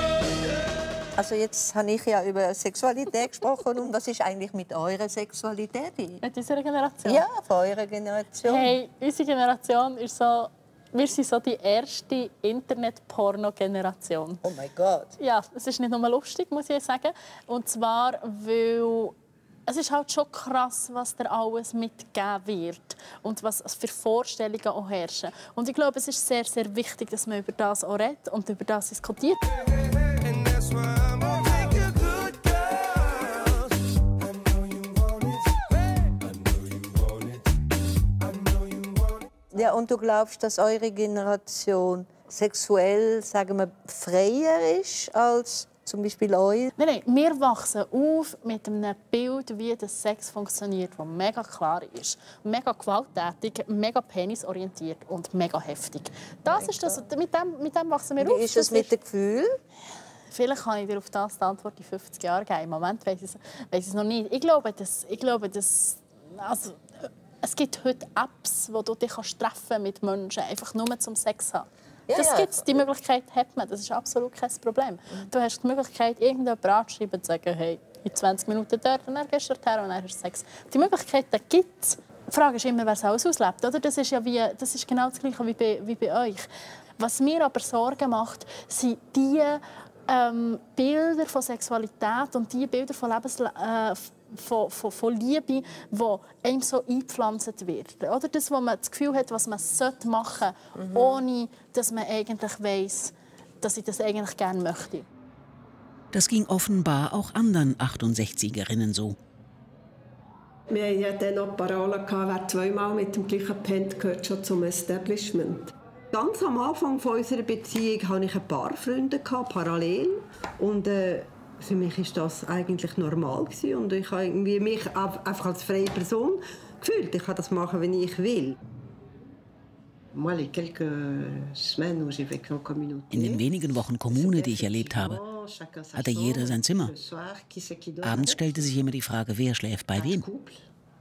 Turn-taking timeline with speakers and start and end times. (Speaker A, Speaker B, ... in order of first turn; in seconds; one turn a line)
Speaker A: 1.2-6.2
Speaker B: 6.2-7.2
Speaker A: 7.0-8.7
Speaker B: 8.4-14.4
Speaker A: 14.4-15.1
Speaker B: 15.2-19.1
Speaker B: 19.7-29.4
Speaker A: 39.5-46.7
Speaker B: 46.8-58.9
Speaker A: 56.5-57.0
Speaker A: 58.2-59.5
Speaker B: 60.3-66.8
Speaker B: 67.4-86.5
Speaker A: 72.1-72.8
Speaker B: 87.0-105.1
Speaker C: 106.1-109.2
Speaker D: 116.1-128.6
Speaker D: 130.1-133.5
Speaker C: 133.1-135.2
Speaker D: 134.0-138.5
Speaker C: 135.9-136.9
Speaker C: 138.0-140.3
Speaker D: 139.9-140.6